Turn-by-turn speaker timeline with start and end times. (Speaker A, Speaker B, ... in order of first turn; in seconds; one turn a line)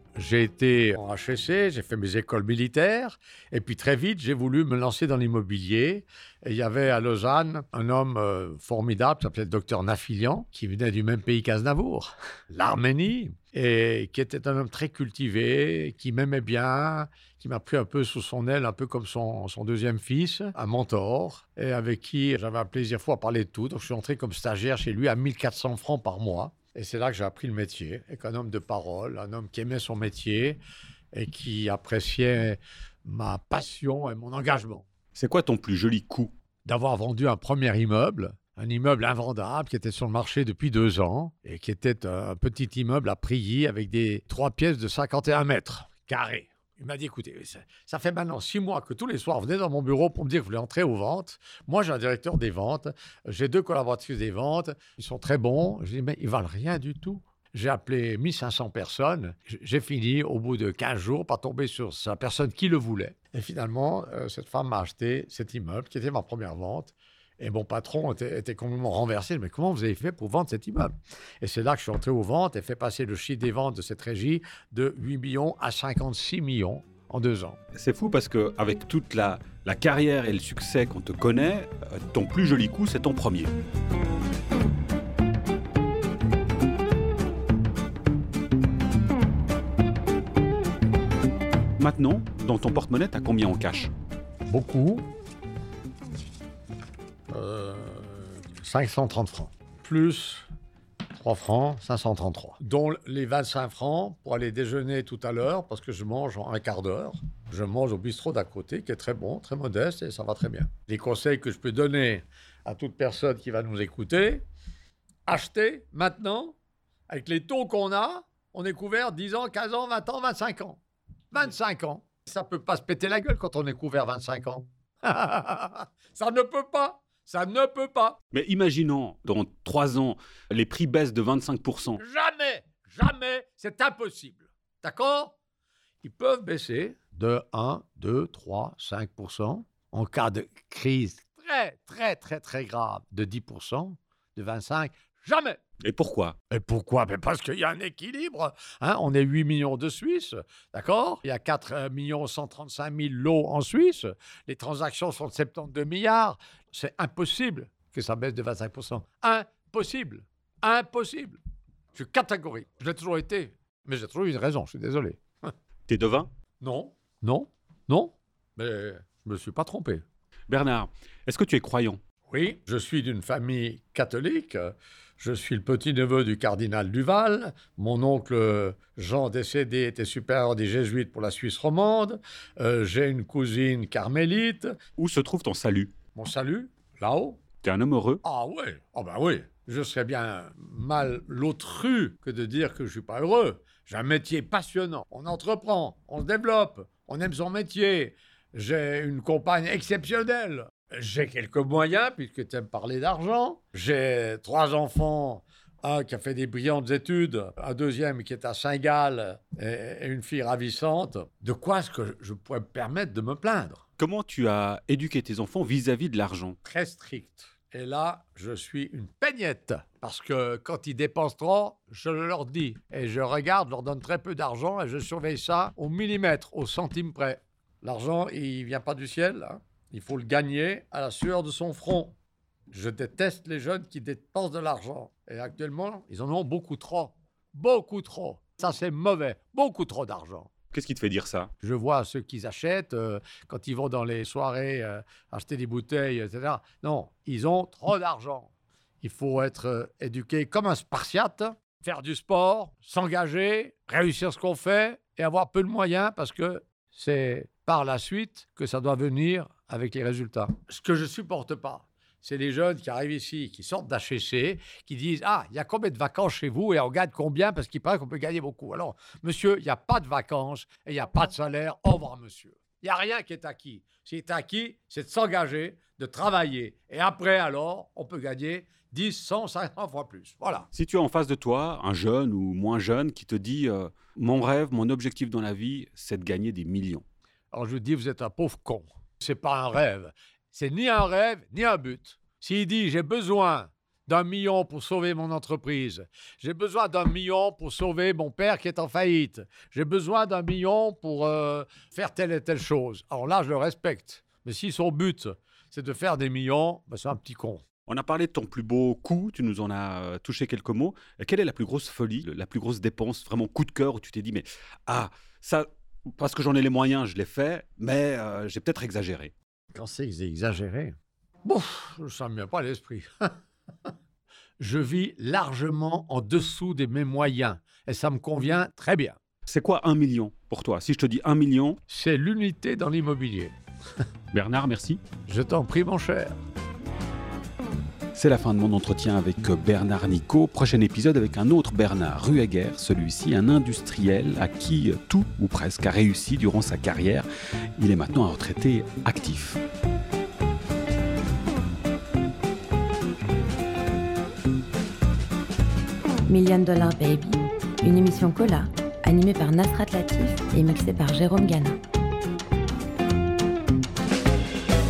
Speaker A: 0.2-30.6
Speaker A: 31.1-34.9
Speaker B: 35.1-36.3
Speaker A: 36.6-77.6
Speaker B: 77.8-83.5
Speaker B: 91.8-93.9
Speaker A: 94.5-95.0
Speaker A: 97.3-100.5
Speaker A: 101.2-114.4
Speaker A: 115.3-116.5
Speaker A: 117.1-120.8
Speaker A: 121.3-128.2
Speaker B: 128.3-132.0
Speaker A: 132.0-135.3
Speaker A: 136.0-145.6
Speaker B: 145.8-146.4
Speaker A: 146.5-161.4
Speaker A: 161.9-165.5
Speaker B: 165.9-166.3
Speaker A: 166.6-170.0
Speaker B: 170.5-172.0
Speaker A: 172.3-184.7
Speaker B: 185.0-185.9
Speaker A: 186.2-187.4
Speaker B: 187.6-188.2
Speaker A: 188.2-213.8
Speaker B: 214.0-216.6
Speaker A: 216.6-232.2
Speaker A: 232.7-240.5
Speaker B: 240.7-241.5
Speaker A: 241.6-248.5
Speaker A: 249.0-280.7
Speaker B: 280.7-287.0
Speaker A: 287.5-307.6
Speaker B: 307.9-315.7
Speaker B: 316.2-319.3
Speaker A: 319.7-323.3
Speaker A: 324.6-329.2
Speaker B: 329.5-331.8
Speaker A: 331.9-333.5
Speaker B: 334.3-335.0
Speaker A: 335.3-336.4
Speaker B: 338.1-347.3
Speaker B: 347.8-349.6
Speaker C: 356.3-361.8